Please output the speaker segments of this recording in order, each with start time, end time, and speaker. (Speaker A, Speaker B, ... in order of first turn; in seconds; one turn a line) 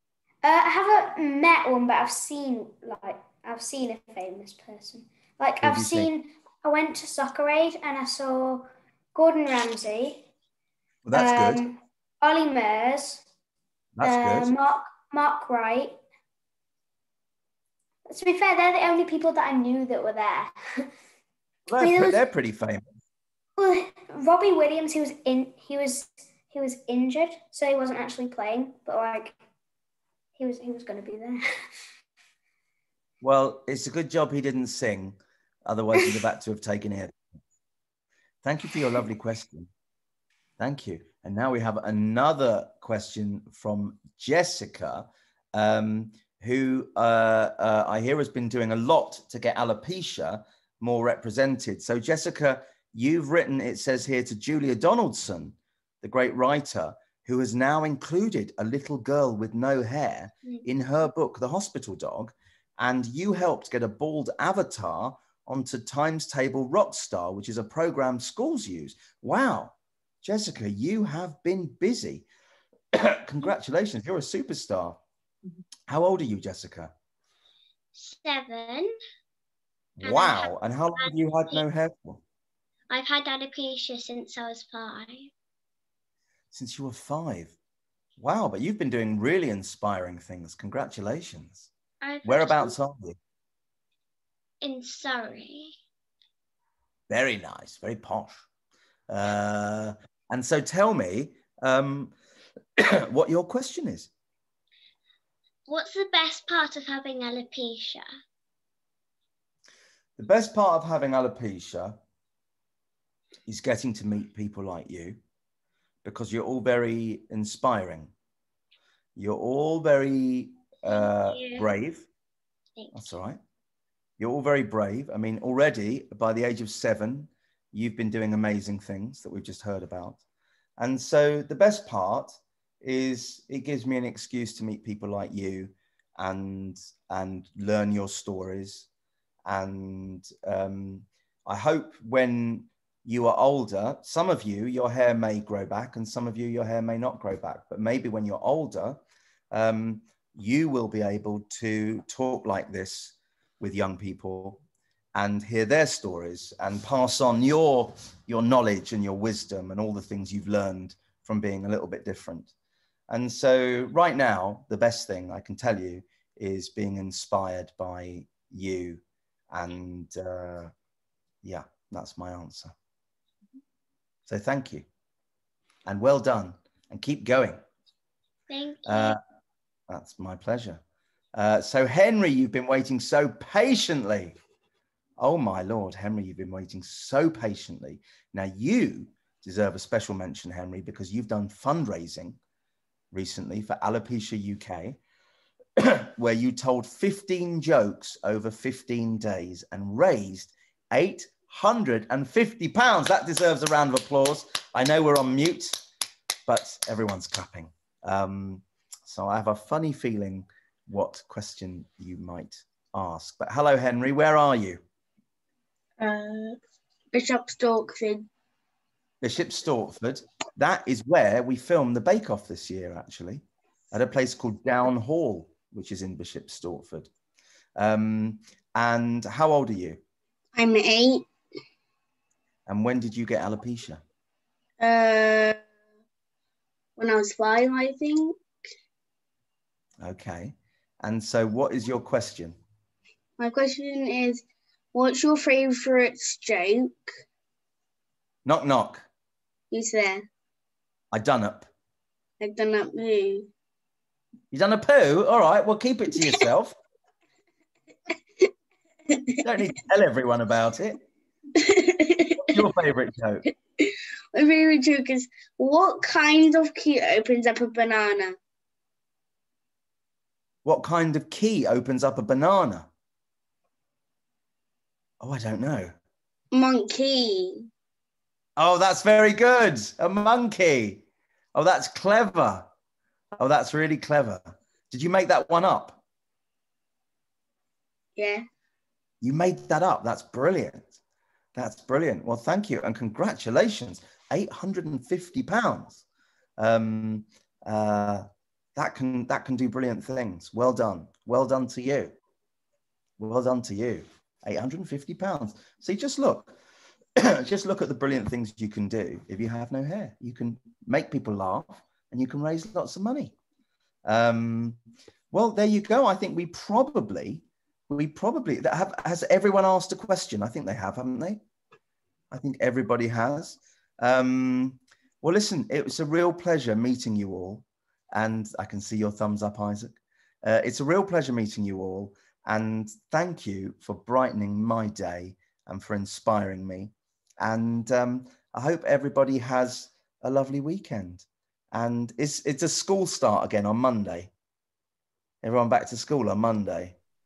Speaker A: 0.4-10.2
Speaker B: 5.6-6.1
Speaker B: 11.0-11.6
Speaker A: 11.1-13.2
Speaker B: 13.9-14.5
Speaker A: 14.0-15.9
Speaker A: 18.1-20.5
Speaker B: 21.7-22.9
Speaker A: 21.8-22.1
Speaker A: 23.6-29.3
Speaker A: 30.4-31.4
Speaker B: 33.2-37.4
Speaker B: 38.4-39.7
Speaker B: 40.6-72.2
Speaker B: 72.9-75.0
Speaker B: 75.9-76.9
Speaker C: 77.9-78.9
Speaker B: 80.0-82.2
Speaker C: 80.0-81.6
Speaker C: 82.9-85.3
Speaker B: 86.5-87.5
Speaker B: 88.2-91.7
Speaker C: 92.0-92.7
Speaker B: 92.2-93.2
Speaker C: 94.6-95.7
Speaker B: 97.1-98.4
Speaker B: 99.1-102.1
Speaker B: 102.8-104.1
Speaker C: 105.7-108.0
Speaker B: 110.2-112.0
Speaker B: 113.5-115.2
Speaker B: 116.0-118.1
Speaker B: 119.2-122.1
Speaker C: 120.9-121.7
Speaker B: 122.9-123.4
Speaker B: 124.2-130.2
Speaker B: 130.8-138.9
Speaker B: 139.4-149.0
Speaker B: 149.5-154.6
Speaker B: 155.1-162.5
Speaker B: 163.1-170.7
Speaker B: 171.4-172.7
Speaker B: 174.3-174.8
Speaker B: 175.8-177.6
Speaker C: 178.5-179.2
Speaker B: 178.8-179.2
Speaker B: 179.9-180.8
Speaker B: 181.3-184.4
Speaker B: 185.2-192.4
Speaker B: 193.1-195.0
Speaker B: 195.8-205.8
Speaker B: 206.5-214.8
Speaker D: 216.0-216.6
Speaker D: 217.1-218.3
Speaker B: 219.2-227.1
Speaker B: 227.8-230.0
Speaker D: 230.5-231.3
Speaker B: 232.7-234.0
Speaker D: 234.8-235.6
Speaker D: 237.0-238.4
Speaker B: 240.0-242.6
Speaker D: 243.4-247.0
Speaker B: 248.4-249.1
Speaker D: 249.7-250.2
Speaker B: 251.1-251.7
Speaker D: 252.4-253.5
Speaker B: 254.5-256.8
Speaker D: 259.1-259.4
Speaker B: 259.4-261.0
Speaker D: 261.6-262.6
Speaker B: 262.4-263.4
Speaker D: 263.8-268.4
Speaker B: 270.6-272.9
Speaker B: 275.2-275.9
Speaker D: 276.5-277.7
Speaker B: 278.6-282.7
Speaker B: 283.4-286.0
Speaker D: 288.1-288.4
Speaker B: 289.2-291.0
Speaker B: 291.5-296.0
Speaker B: 296.6-302.1
Speaker B: 303.2-306.6
Speaker B: 307.1-313.3
Speaker B: 314.0-314.8
Speaker B: 315.3-321.4
Speaker B: 322.3-344.3
Speaker B: 345.4-346.9